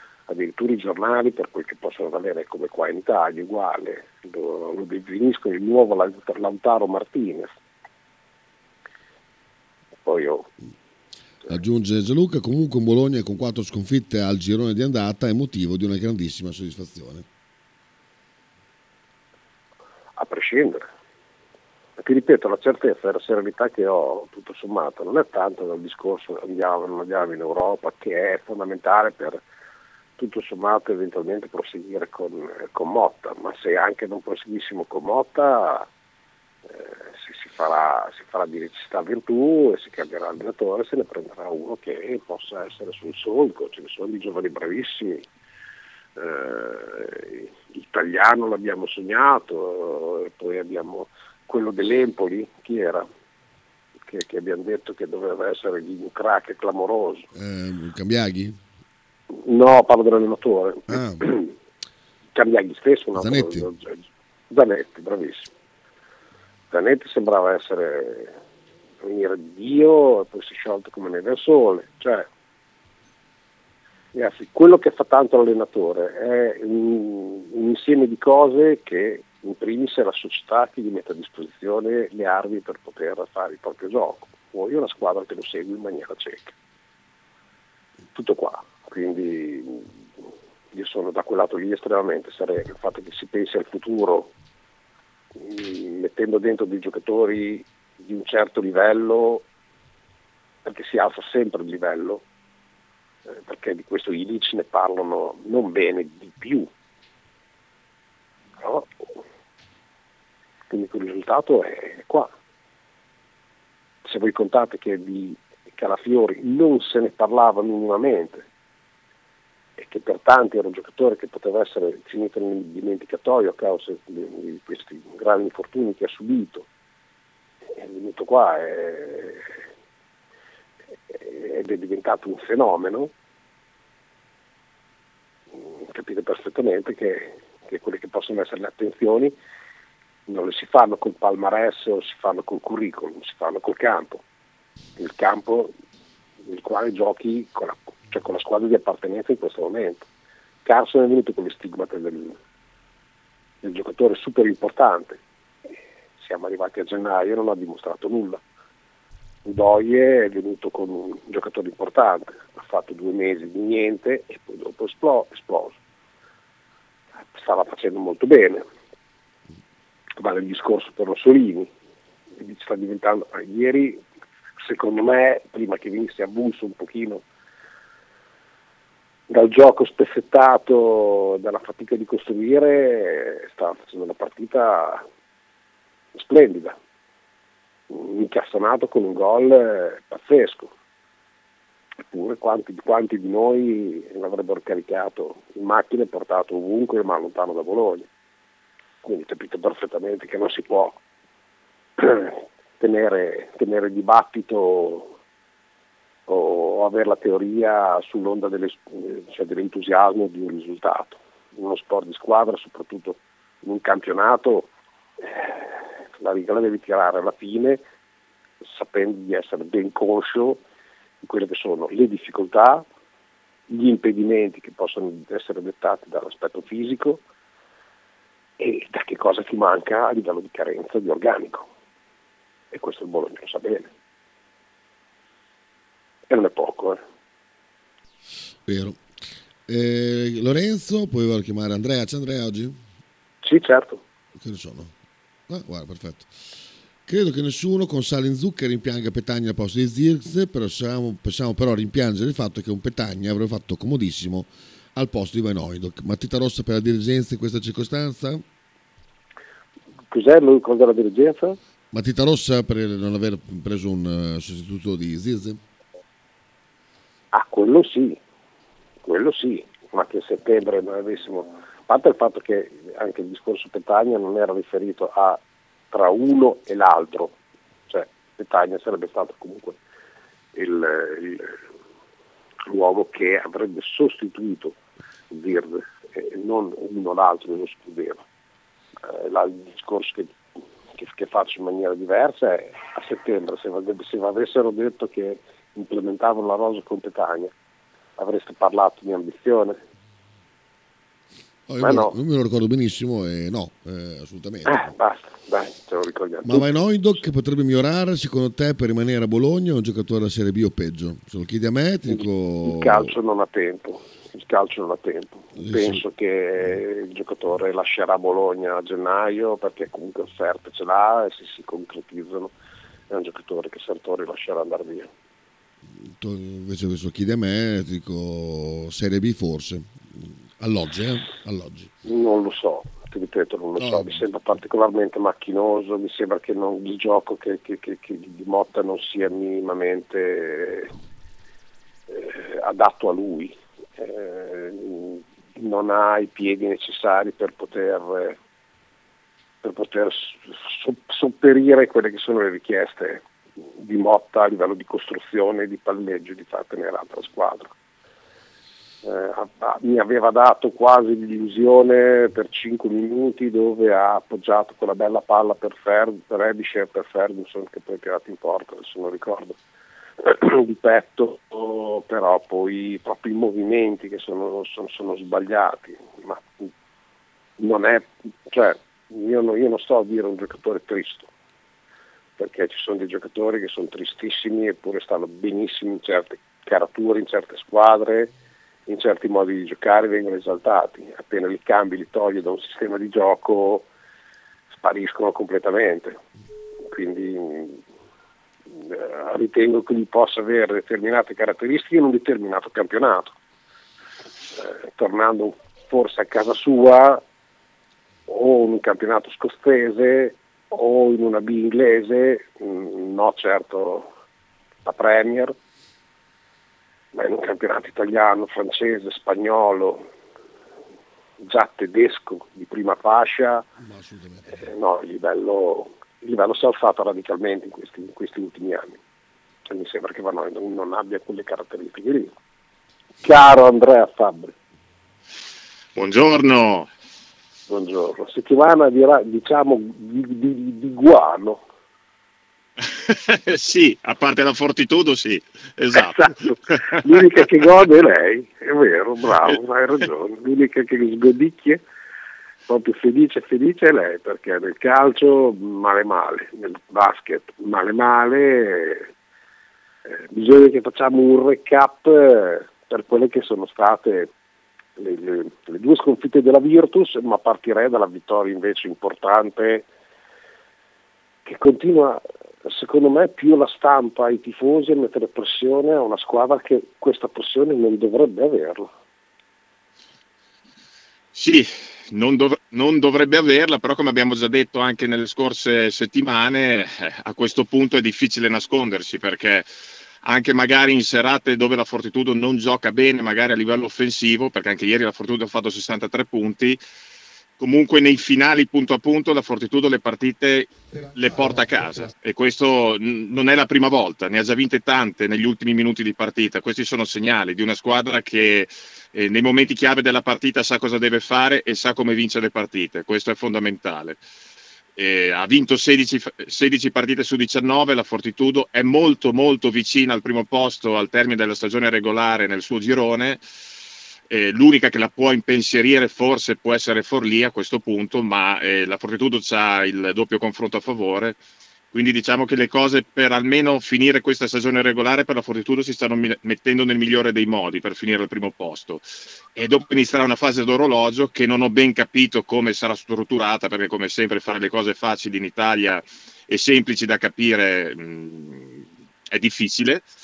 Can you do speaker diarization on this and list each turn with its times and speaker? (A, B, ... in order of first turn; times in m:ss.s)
0:00.3-0:07.5 A
0:10.0-0:10.5 A
0:11.5-0:17.3 B
0:20.2-0:20.9 A
0:22.0-0:29.4 A
0:30.2-0:35.9 A
0:36.7-0:45.2 A
0:46.2-0:53.1 A
0:54.1-0:57.3 A
0:57.4-0:58.6 B
0:59.3-1:01.5 A
1:00.9-1:01.3 B
1:02.4-1:04.0 A
1:03.2-1:03.7 B
1:04.5-1:05.5 A
1:06.7-1:08.4 A
1:09.0-1:12.3 A
1:14.1-1:26.5 A
1:28.2-1:29.9 A
1:30.7-1:34.3 A
1:35.4-1:39.4 A
1:40.6-1:42.2 A
1:43.3-1:46.7 A
1:48.6-1:49.0 A
1:50.7-1:52.3 A
1:54.1-1:58.4 A
1:59.8-2:06.7 A
2:07.8-2:09.5 A
2:11.1-2:13.1 A
2:15.6-2:19.3 A
2:20.3-2:24.2 A
2:25.0-2:25.7 A
2:26.5-2:30.1 A
2:30.6-2:32.4 A
2:33.6-2:35.2 A
2:36.2-2:38.4 A
2:39.4-2:45.8 A
2:47.4-2:48.6 A
2:50.2-2:51.7 A
2:52.4-2:54.0 A
2:54.6-2:57.2 A
2:59.3-3:05.0 A
3:06.2-3:06.8 A
3:07.9-3:10.7 A
3:12.1-3:18.1 A
3:19.0-3:21.0 A
3:22.0-3:25.1 A
3:26.3-3:34.7 A
3:35.2-3:37.8 A
3:38.6-3:40.6 A
3:41.2-3:42.8 A
3:43.7-3:47.2 A
3:48.6-3:51.7 A
3:52.7-3:53.9 A
3:56.3-3:57.0 A
3:58.7-3:59.0 B
3:59.7-4:02.8 B
4:03.4-4:04.0 A
4:04.4-4:04.9 B
4:05.5-4:06.3 B
4:07.1-4:18.4 B
4:20.1-4:21.6 A
4:21.9-4:25.6 B
4:27.3-4:28.2 A
4:29.0-4:35.4 A
4:35.9-4:37.4 A
4:37.9-4:39.8 A
4:40.6-4:41.6 A
4:42.7-4:44.8 A
4:45.3-4:48.2 A
4:49.0-4:50.4 A
4:51.0-4:57.5 A
4:58.2-4:59.8 A
5:01.7-5:04.9 B
5:01.8-5:02.1 A
5:04.7-5:06.8 A
5:06.4-5:13.1 B
5:12.1-5:22.5 A
5:15.6-5:16.0 B
5:23.1-5:25.1 A
5:26.0-5:31.9 B
5:32.0-5:40.9 A
5:33.8-5:34.2 B
5:42.1-5:48.4 A
5:49.6-5:53.2 A
5:53.8-5:57.7 A
5:59.0-6:09.6 A
6:10.2-6:16.7 A
6:17.6-6:21.3 A
6:22.4-6:28.3 A
6:28.9-6:33.9 A
6:34.8-6:36.2 A
6:36.9-6:37.8 A
6:38.8-6:43.4 A
6:44.6-6:47.2 A
6:48.3-6:54.1 A
6:54.8-6:55.6 A
6:57.1-7:00.0 A
7:01.4-7:03.7 A
7:03.8-7:04.7 B
7:04.5-7:09.0 A
7:09.7-7:12.3 A
7:13.2-7:14.5 A
7:16.0-7:16.9 C
7:17.7-7:21.6 A
7:22.9-7:27.1 C
7:25.9-7:31.8 A
7:32.7-7:39.1 A
7:40.1-7:44.3 A
7:45.0-7:49.9 A
7:51.5-7:58.9 A
8:01.3-8:09.7 C
8:10.2-8:16.8 C
8:17.6-8:34.2 C
8:35.0-8:43.4 C
8:44.3-8:51.4 C
8:51.9-8:59.0 C
8:59.6-9:10.1 C